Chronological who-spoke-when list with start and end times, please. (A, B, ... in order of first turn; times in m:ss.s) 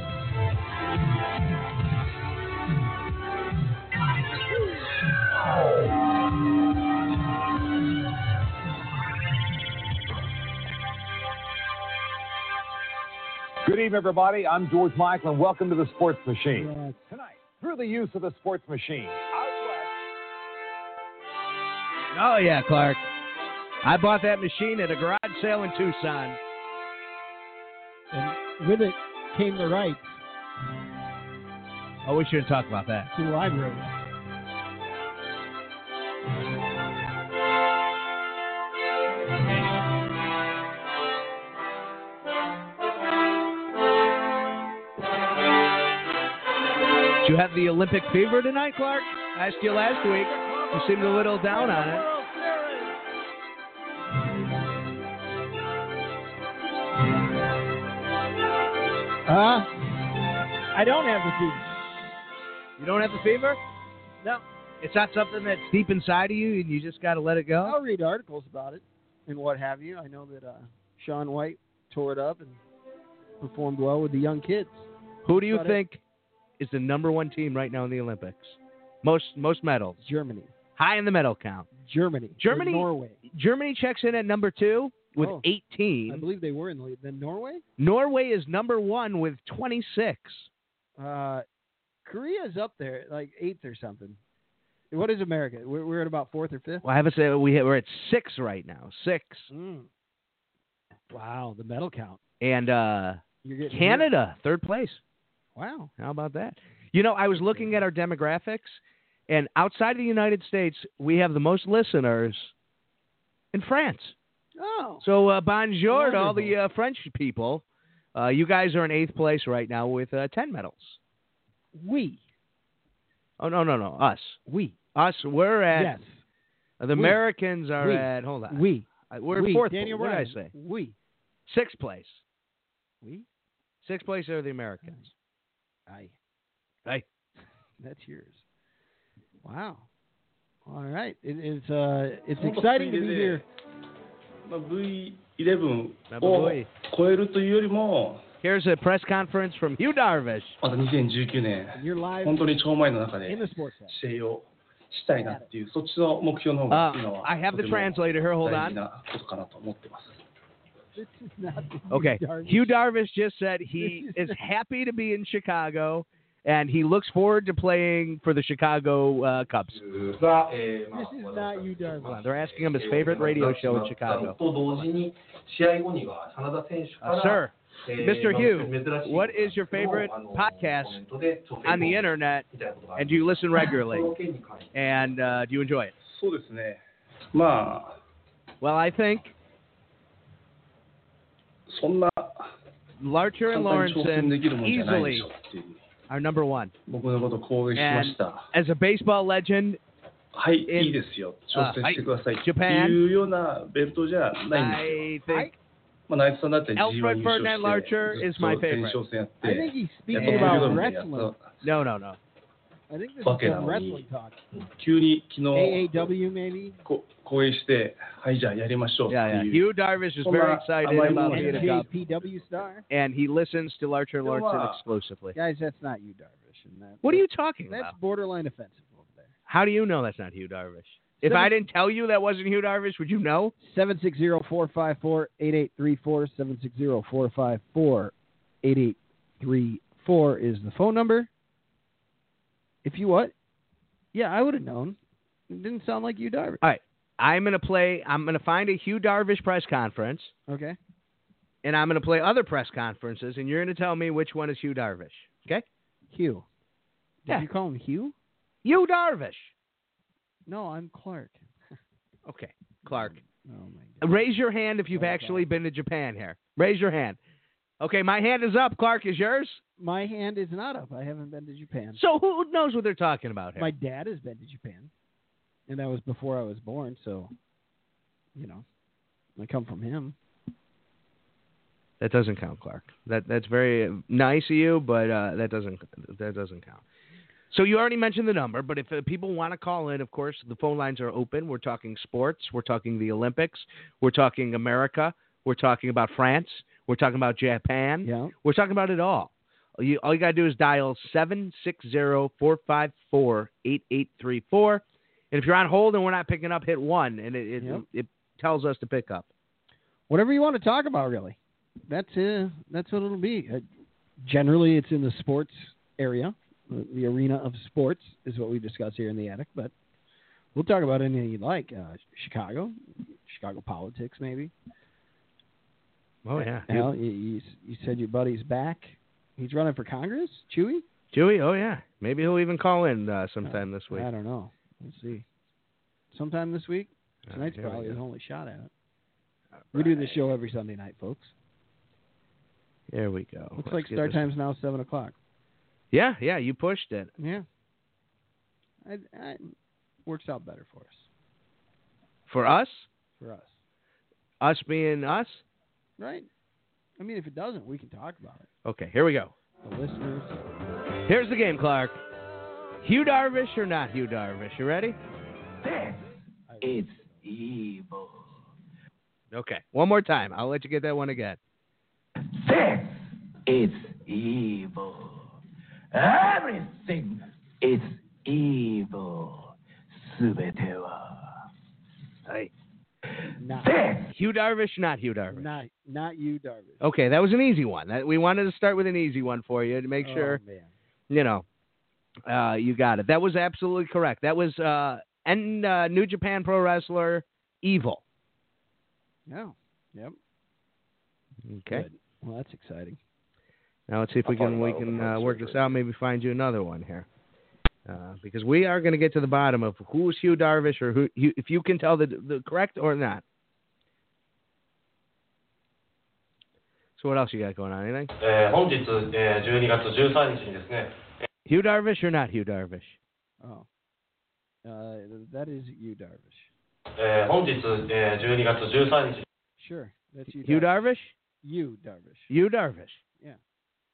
0:13.6-0:19.9 A
0:16.6-0:17.0 B
0:22.1-0:23.0 C
0:23.8-0:26.4 C
0:28.1-0:30.2 B
0:32.0-0:33.1 C
0:33.1-0:33.9 B
0:47.2-0:52.0 C
0:51.3-0:52.9 B
0:59.3-0:59.7 B
1:00.7-1:01.7 B
1:02.8-1:03.6 C
1:04.8-1:07.8 C
1:07.6-1:12.6 B
1:13.4-1:15.8 B
1:15.2-1:16.0 C
1:16.6-1:20.0 C
1:20.0-1:20.5 B
1:20.8-1:21.7 C
1:21.8-1:23.2 B
1:22.4-1:26.2 C
1:25.2-1:25.4 B
1:26.1-1:27.6 B
1:27.8-1:30.5 C
1:31.0-1:31.4 B
1:32.0-1:34.2 B
1:34.9-1:36.8 B
1:36.8-1:39.5 C
1:39.5-1:39.9 B
1:41.1-1:42.2 B
1:42.4-1:45.0 C
1:43.4-1:44.1 B
1:45.6-1:45.9 B
1:46.0-1:52.5 C
1:47.4-1:47.7 B
1:53.5-1:54.1 C
1:54.6-1:55.0 B
1:55.0-1:57.6 C
1:55.9-1:56.5 B
1:58.1-2:01.0 C
2:01.8-2:02.2 B
2:03.4-2:04.4 C
2:04.4-2:04.8 B
2:04.9-2:05.9 C
2:05.7-2:06.2 B
2:06.8-2:10.5 C
2:06.9-2:07.2 B
2:07.8-2:10.9 B
2:11.5-2:12.2 C
2:13.8-2:15.1 C
2:15.9-2:16.1 B
2:17.8-2:18.4 B
2:19.4-2:19.9 B
2:20.7-2:23.4 B
2:22.4-2:23.4 D
2:24.4-2:28.2 D
2:26.1-2:26.7 C
2:28.4-2:30.6 C
2:30.6-2:40.2 D
2:31.8-2:32.4 B
2:33.2-2:34.0 B
2:35.2-2:35.5 B
2:36.7-2:38.8 C
2:41.0-2:42.8 B
2:41.9-2:49.8 C
2:43.8-2:44.3 B
2:49.7-3:05.3 E
2:50.9-2:52.2 B
2:52.1-2:54.4 C
2:57.0-3:01.0 C
3:01.6-3:04.1 C
3:04.7-3:05.9 C
3:06.0-3:07.9 D
3:08.6-3:09.3 C
3:11.7-3:12.5 D
3:13.0-3:15.3 C
3:13.5-3:15.8 D
3:16.1-3:16.7 C
3:16.9-3:18.5 D
3:17.8-3:19.8 C
3:20.3-3:25.1 D
3:20.7-3:21.0 C
3:21.5-3:23.0 C
3:24.5-3:25.5 C
3:26.1-3:31.5 D
3:26.8-3:29.0 C
3:29.4-3:31.3 B
3:30.1-3:30.8 C
3:31.6-3:32.2 C
3:32.9-3:34.4 B
3:33.2-3:34.0 D
3:34.5-3:36.1 D
3:35.5-3:36.8 B
3:36.8-3:39.6 D
3:39.1-3:41.9 C
3:40.2-3:42.8 D
3:41.0-3:42.8 B
3:42.9-3:45.3 C
3:44.2-3:44.8 D
3:45.3-3:49.3 B
3:47.0-3:47.9 C
3:49.5-3:53.5 C
3:51.2-3:51.5 B
3:53.6-4:01.3 B
4:02.8-4:03.3 B
4:04.1-4:05.0 B
4:05.5-4:06.6 B
4:06.6-4:10.3 C
4:10.5-4:10.8 B
4:11.6-4:15.6 C
4:16.1-4:16.4 B
4:17.2-4:18.1 B
4:18.6-4:19.5 C
4:20.5-4:21.5 B
4:22.2-4:23.2 C
4:22.8-4:24.1 B
4:24.0-4:27.2 C
4:24.9-4:25.4 B
4:27.8-4:29.6 C
4:29.8-4:32.0 B
4:32.0-4:33.7 C
4:33.6-4:34.9 B
4:35.7-4:37.3 B
4:38.4-4:38.6 B
4:39.4-4:40.1 B
4:42.0-4:46.8 C
4:47.5-5:09.3 C
4:58.0-4:58.3 B
5:10.1-5:11.4 B
5:11.9-5:13.6 B
5:14.2-5:19.7 B
5:20.6-5:24.5 B
5:26.2-5:26.9 C
5:26.4-5:30.8 B
5:31.1-5:34.1 C
5:33.4-5:35.2 B
5:36.1-5:38.7 B
5:37.3-5:38.0 C
5:39.6-5:40.2 C
5:39.7-5:41.3 B
5:42.9-5:44.2 C
5:43.6-5:45.1 B
5:45.9-5:47.1 C
5:47.2-5:47.4 B
5:48.8-5:49.5 B
5:50.1-5:51.0 B
5:52.3-5:52.9 C
5:53.2-5:53.6 B
5:54.4-5:55.4 C
5:56.0-5:56.3 B
5:57.0-5:58.5 B
5:58.6-5:59.3 C
5:59.6-6:00.4 B
6:01.1-6:02.0 C
6:02.8-6:05.0 C
6:06.5-6:07.2 B
6:06.6-6:08.0 C
6:09.3-6:11.4 C
6:12.5-6:12.8 C
6:13.5-6:15.1 C
6:15.9-6:17.1 C
6:17.6-6:19.5 C
6:20.0-6:21.1 C
6:23.4-6:23.8 B
6:23.7-6:25.5 C
6:25.3-6:26.8 B
6:26.8-6:30.4 C
6:30.0-6:30.7 B
6:31.1-6:31.4 C
6:32.3-6:38.0 C
6:39.3-6:40.2 B
6:41.4-6:41.9 C
6:41.7-6:43.0 B
6:43.9-6:47.1 C
6:44.3-6:45.8 D
6:47.9-6:53.2 C
6:57.0-6:58.1 C
6:58.2-7:00.9 F
7:01.4-7:03.0 C
7:03.4-7:03.7 B
7:04.6-7:06.5 B
7:07.0-7:09.2 F
7:09.6-7:10.8 B
7:10.4-7:11.1 C
7:11.4-7:12.3 B
7:12.3-7:13.0 C